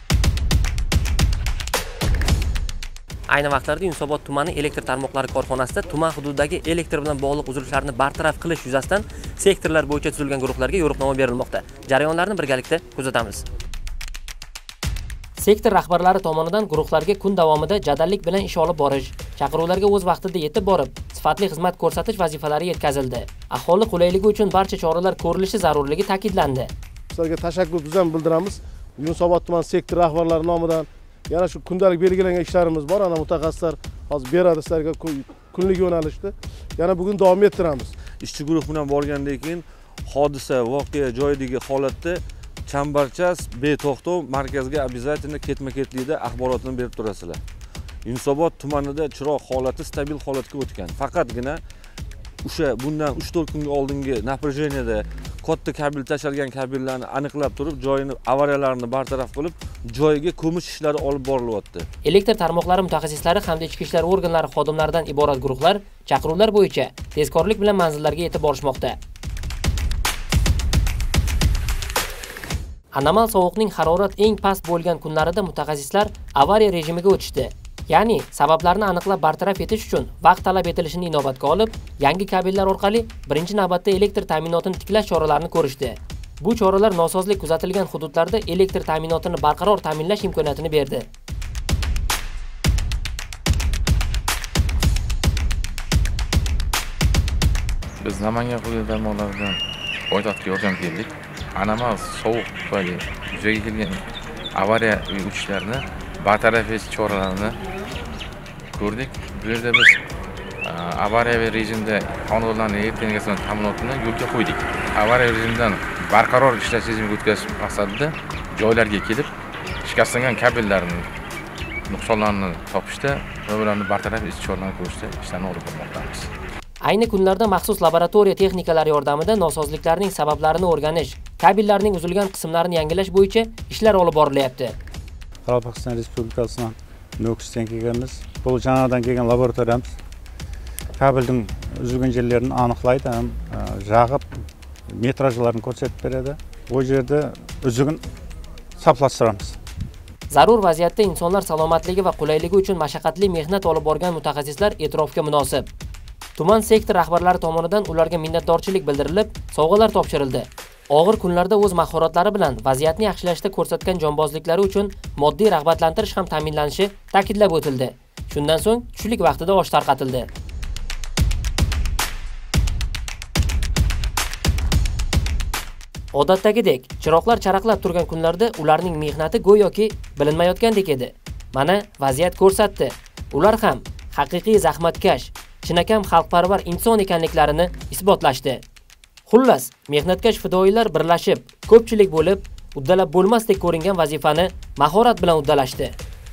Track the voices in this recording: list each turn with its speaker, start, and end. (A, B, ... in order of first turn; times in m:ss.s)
0:03.3-0:13.4 A
0:15.4-0:26.7 A
0:27.1-0:37.9 B
0:38.2-0:47.4 C
0:48.0-0:51.6 C
0:52.4-1:01.8 C
1:02.0-1:09.0 A
1:12.9-1:31.1 A
1:38.0-1:44.0 D
1:44.5-1:47.6 D
1:48.7-1:50.0 D
1:50.6-1:59.3 D
1:59.8-2:01.1 D
2:01.9-2:06.3 D
2:06.8-2:14.8 A
2:15.4-2:20.0 E
2:21.0-2:24.3 E
2:25.0-2:28.0 E
2:28.8-2:29.6 E
2:30.3-2:35.7 A
2:36.4-2:50.3 A
2:56.1-3:08.6 A
3:09.3-3:16.0 A